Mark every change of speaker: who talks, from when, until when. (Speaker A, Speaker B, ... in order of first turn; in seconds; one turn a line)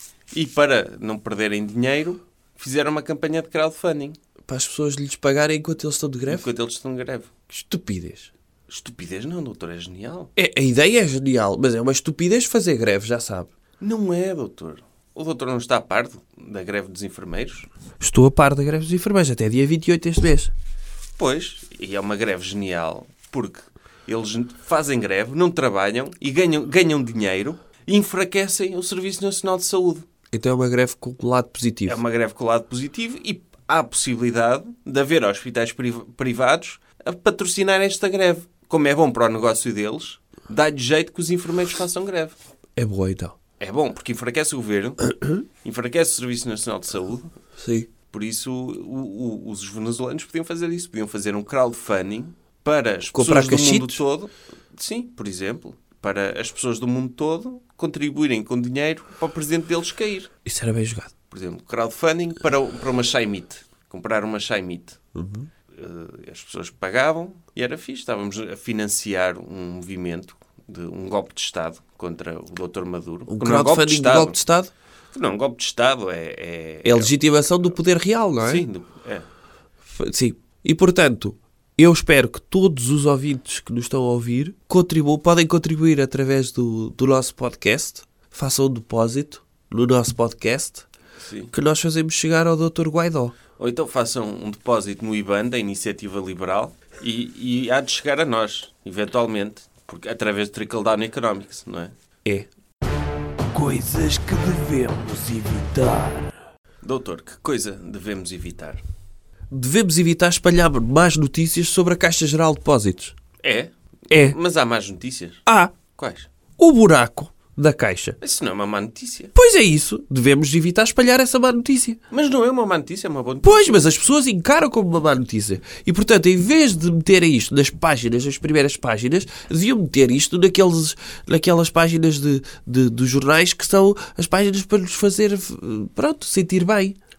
Speaker A: 0.3-4.2
Speaker B: 4.5-6.5
Speaker A: 6.3-7.3
Speaker B: 7.5-8.3
Speaker A: 8.7-10.3
Speaker B: 10.3-13.5
Speaker A: 13.8-17.7
Speaker B: 18.0-20.5
Speaker A: 21.2-30.0
Speaker B: 30.3-32.0
Speaker A: 31.9-42.3
Speaker B: 42.8-43.4
Speaker A: 43.6-45.0
Speaker B: 45.1-45.4
Speaker A: 45.6-47.3
Speaker B: 47.6-47.9
Speaker A: 48.1-60.3
Speaker B: 53.1-54.0
Speaker B: 60.4-61.1
Speaker A: 61.3-65.0
Speaker B: 65.1-65.5
Speaker A: 65.7-74.4
Speaker B: 73.3-74.7
Speaker A: 75.1-77.1
Speaker B: 76.8-78.7
Speaker A: 78.4-79.2
Speaker B: 79.9-90.9
Speaker A: 91.2-91.5
Speaker B: 91.5-93.3
Speaker A: 93.6-101.9
Speaker C: 103.5-106.3
Speaker A: 106.8-108.8
Speaker B: 109.5-113.1
Speaker A: 113.4-116.3
Speaker B: 114.1-114.4
Speaker B: 115.5-115.7
Speaker B: 116.6-118.2
Speaker A: 118.2-119.3
Speaker B: 119.3-122.0
Speaker A: 122.1-123.8
Speaker B: 123.4-137.0